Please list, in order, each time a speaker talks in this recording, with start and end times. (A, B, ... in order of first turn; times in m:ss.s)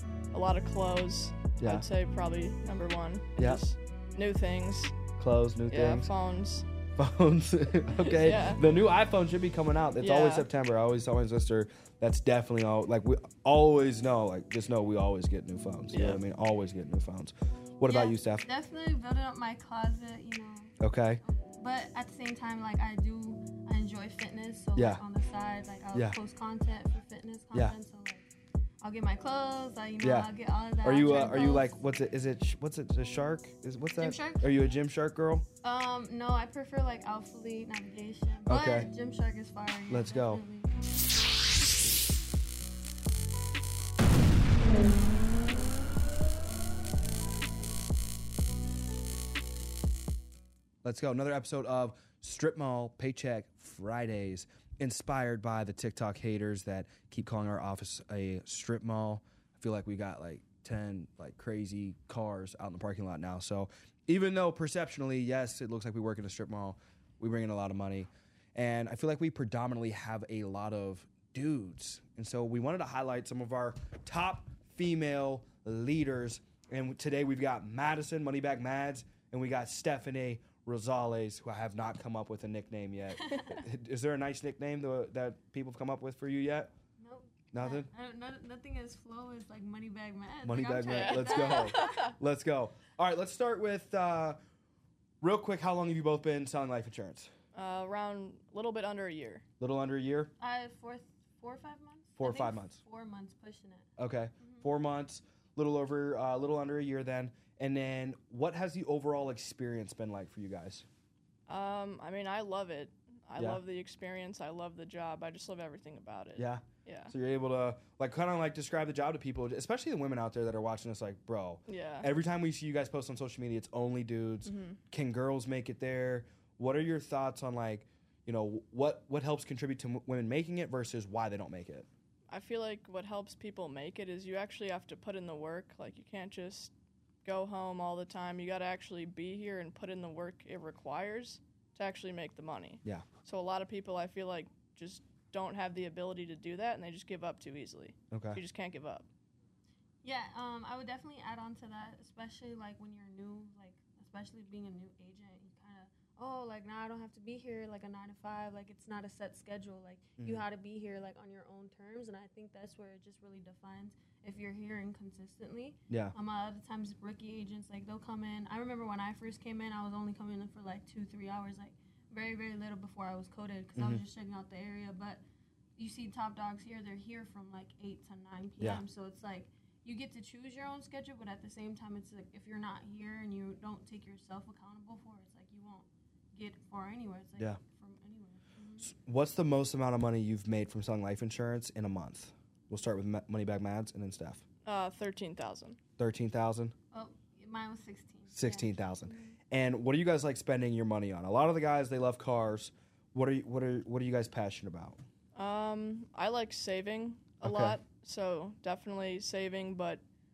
0:00.3-0:05.0 A
0:01.6-0:01.8 B
0:03.4-0:03.6 B
0:05.2-0:06.1 B
0:05.7-0:06.7 A
0:07.0-0:18.5 B
0:07.9-0:08.6 A
0:10.0-0:10.5 A
0:15.9-0:16.2 A
0:17.9-0:28.2 C
0:20.8-0:21.2 B
0:24.8-0:25.0 B
0:28.8-0:31.7 C
0:30.0-0:30.3 B
0:30.8-0:35.4 B
0:34.0-0:34.6 C
0:35.6-0:40.9 C
0:38.5-0:38.9 B
0:39.9-0:40.4 B
0:50.8-1:26.7 B
1:23.2-1:23.5 C
1:27.0-1:32.2 C
1:27.5-1:27.9 B
1:30.4-1:34.4 B
1:30.8-1:32.0 A
1:35.2-1:37.3 B
1:37.5-1:39.4 A
1:39.6-1:40.3 B
1:40.4-1:43.9 C
1:42.2-1:42.8 B
1:44.0-1:50.9 B
1:44.4-1:44.7 C
1:51.5-1:57.1 A
1:56.4-2:11.9 B
2:01.7-2:02.1 A
2:04.4-2:04.8 A
2:12.3-2:16.7 A
2:17.2-2:29.1 A
2:28.1-2:28.4 B
2:30.0-2:55.2 C
2:40.2-2:40.4 B
2:45.9-2:46.2 B
2:53.8-2:54.0 B
2:55.8-3:08.9 C
3:08.8-3:14.4 B
3:14.6-3:15.8 A
3:16.0-3:16.7 B
3:16.9-3:19.1 C
3:18.3-3:25.0 B
3:25.4-3:30.0 A
3:27.4-3:27.8 B